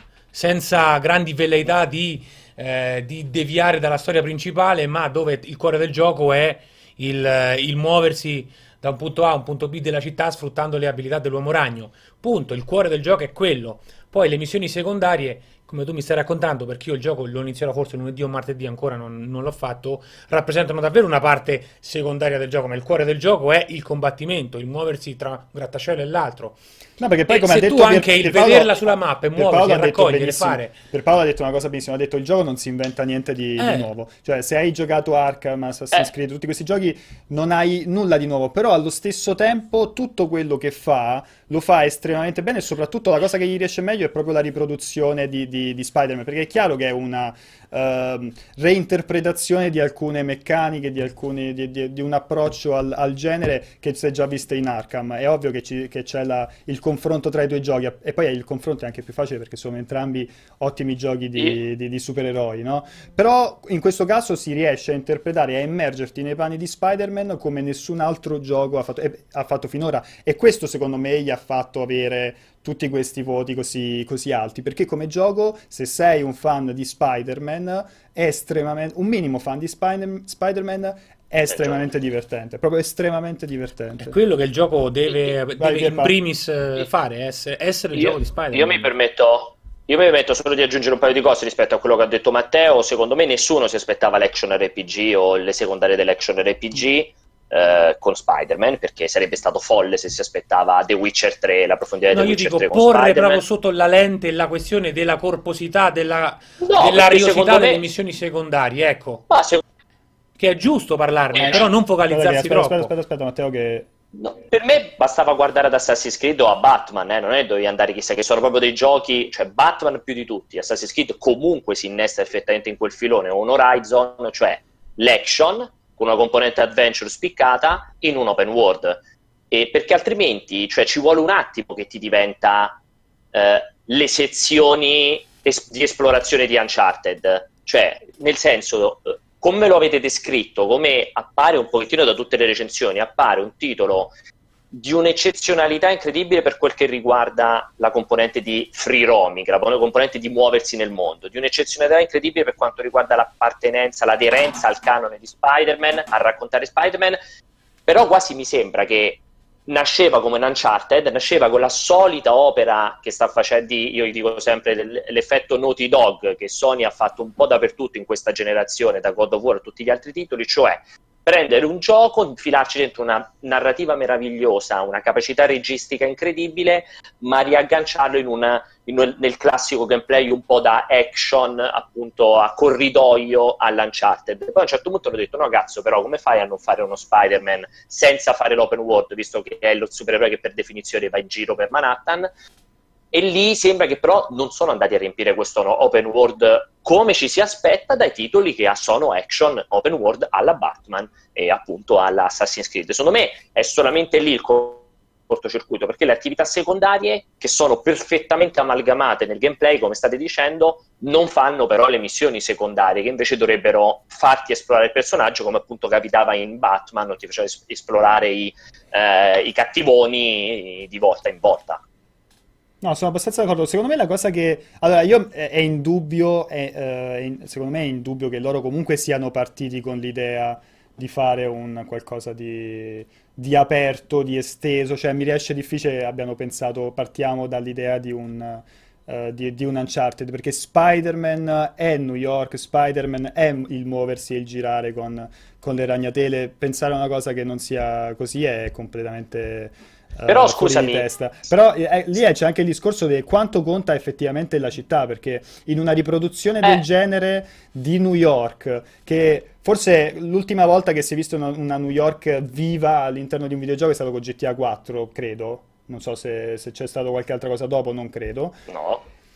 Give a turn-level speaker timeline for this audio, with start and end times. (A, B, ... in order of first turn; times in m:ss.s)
0:00.3-0:26.6 A
0:27.0-1:24.2 B
0:27.3-0:30.8 A
0:33.6-0:33.9 A
1:21.5-1:21.8 C
1:24.0-1:28.9 A
1:25.6-1:26.2 B
1:27.9-1:43.4 C
1:42.1-1:49.3 A
1:46.6-1:47.8 C
1:49.3-1:49.6 C
1:50.4-1:52.9 A
1:51.4-1:51.6 C
1:52.1-1:53.9 B
1:54.2-2:09.0 C
2:09.5-2:12.8 C
2:13.3-2:24.1 C
2:24.7-2:37.2 C
2:37.9-3:12.3 C
3:13.1-3:41.8 C
3:42.8-4:28.6 B
4:10.3-4:11.1 C
4:28.7-4:29.0 C